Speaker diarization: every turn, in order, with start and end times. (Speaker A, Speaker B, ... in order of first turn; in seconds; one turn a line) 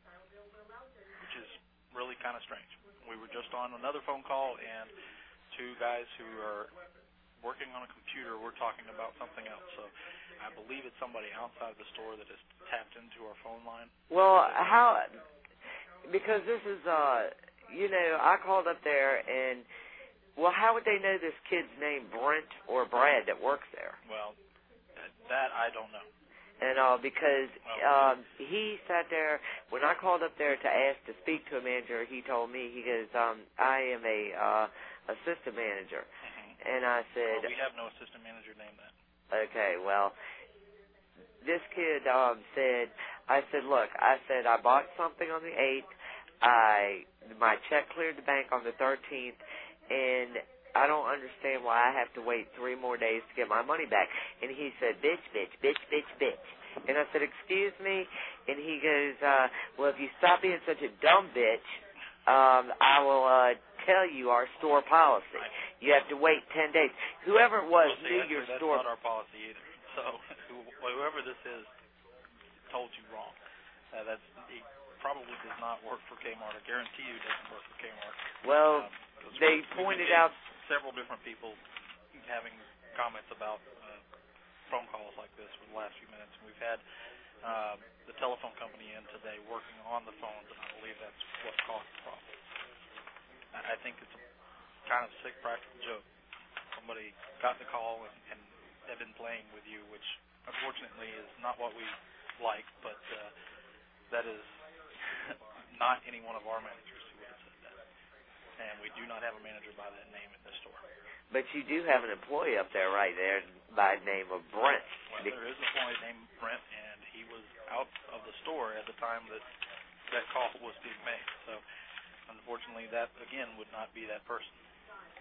Speaker A: 1.2-4.9
Speaker A: 5.5-6.7
Speaker A: 7.4-14.7
Speaker B: 14.1-15.1
Speaker B: 16.1-19.7
Speaker B: 20.4-24.0
Speaker A: 24.0-24.4
Speaker A: 25.0-26.1
Speaker B: 26.6-36.1
Speaker A: 27.6-28.1
Speaker A: 36.2-36.6
Speaker B: 36.6-37.5
Speaker A: 37.3-38.9
Speaker B: 39.3-40.2
Speaker B: 41.4-45.9
Speaker B: 46.4-61.6
Speaker B: 62.3-68.8
Speaker A: 67.8-71.7
Speaker A: 72.7-73.4
Speaker A: 73.9-81.6
Speaker B: 78.4-80.3
Speaker A: 82.2-84.0
Speaker A: 84.7-86.8
Speaker A: 87.4-92.3
Speaker A: 93.5-94.2
Speaker A: 94.9-96.1
Speaker A: 96.7-103.3
Speaker A: 104.1-104.6
Speaker A: 105.2-107.8
Speaker A: 108.6-110.8
Speaker B: 111.3-115.4
Speaker A: 115.1-119.4
Speaker A: 120.1-121.6
Speaker A: 122.3-124.5